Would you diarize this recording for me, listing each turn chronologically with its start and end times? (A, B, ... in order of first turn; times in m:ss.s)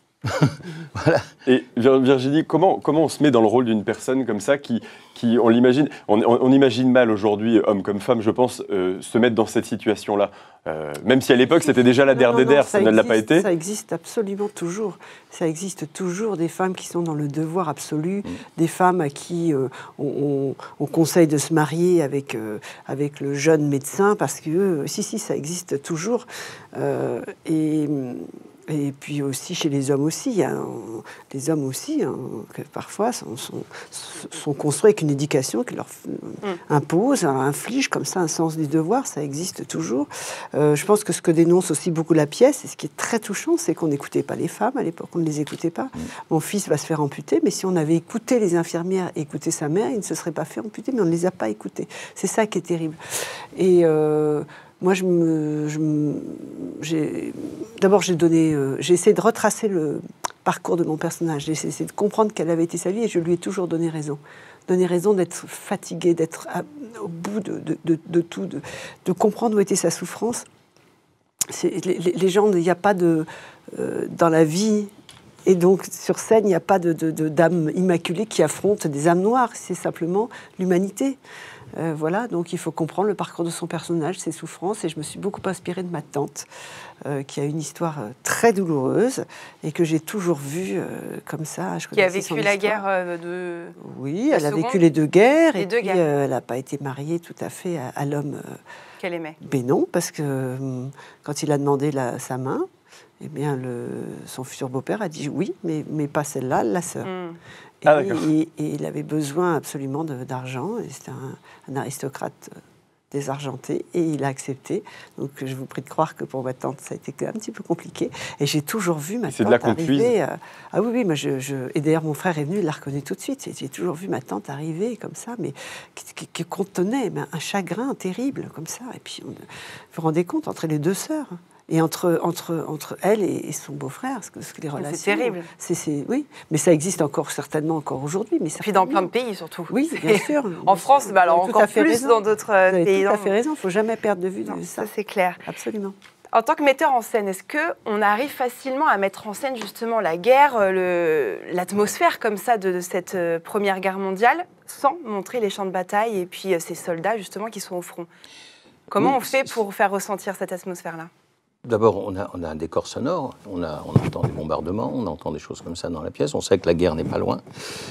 0:00.2-0:01.3 A
0:01.4-0:13.4 B
0:12.1-0:53.0 C
0:53.5-1:10.4 C
1:11.5-1:14.9 C
1:15.4-1:21.2 C
1:21.8-1:26.5 C
1:27.0-1:32.8 C
1:31.9-1:33.7 D
1:33.8-1:38.6 C
1:34.3-1:34.8 D
1:35.6-1:36.0 D
1:39.0-1:39.4 D
1:39.4-1:42.6 C
1:43.2-1:47.1 C
1:47.0-1:47.4 D
1:47.8-1:52.6 C
1:47.8-1:48.3 B
1:53.1-2:19.1 C
1:59.3-2:00.1 B
2:14.8-2:15.5 D
2:18.6-2:23.3 D
2:19.7-2:24.9 C
2:24.5-2:25.4 D
2:25.4-2:25.9 C
2:26.3-2:38.1 D
2:38.9-2:41.1 D
2:41.6-2:47.4 A